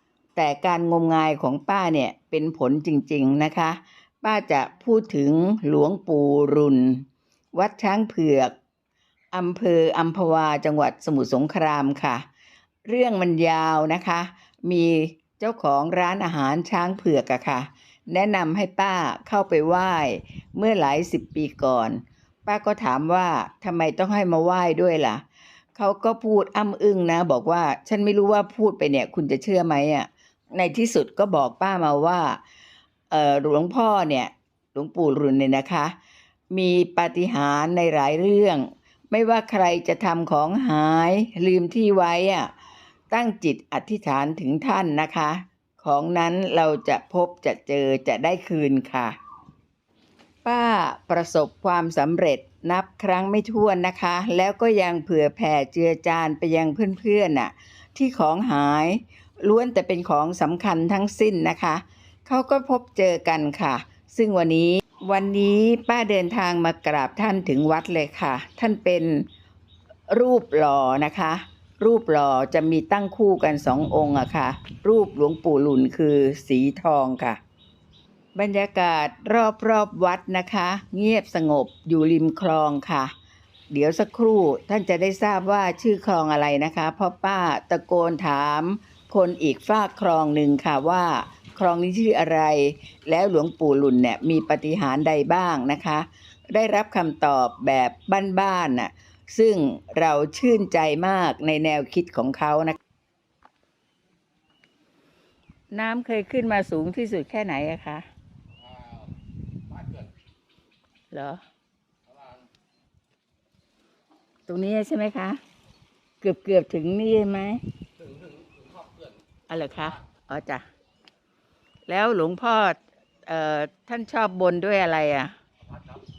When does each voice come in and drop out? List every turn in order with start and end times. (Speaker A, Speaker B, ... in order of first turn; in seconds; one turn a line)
Speaker A: 0.4-8.5
Speaker A: 9.3-12.3
Speaker A: 12.9-25.2
Speaker A: 25.8-32.4
Speaker A: 33.1-36.0
Speaker A: 36.5-42.5
Speaker A: 43.1-49.2
Speaker A: 50.5-69.3
Speaker A: 70.1-77.4
Speaker A: 78.4-83.1
Speaker A: 83.7-102.8
Speaker A: 105.7-108.1
Speaker B: 108.6-109.2
Speaker B: 109.7-110.1
Speaker A: 111.1-111.4
Speaker B: 112.1-112.5
Speaker A: 114.5-115.4
Speaker A: 116.2-117.6
Speaker B: 118.0-120.1
Speaker A: 119.5-120.7
Speaker A: 121.9-125.3
Speaker B: 125.6-126.1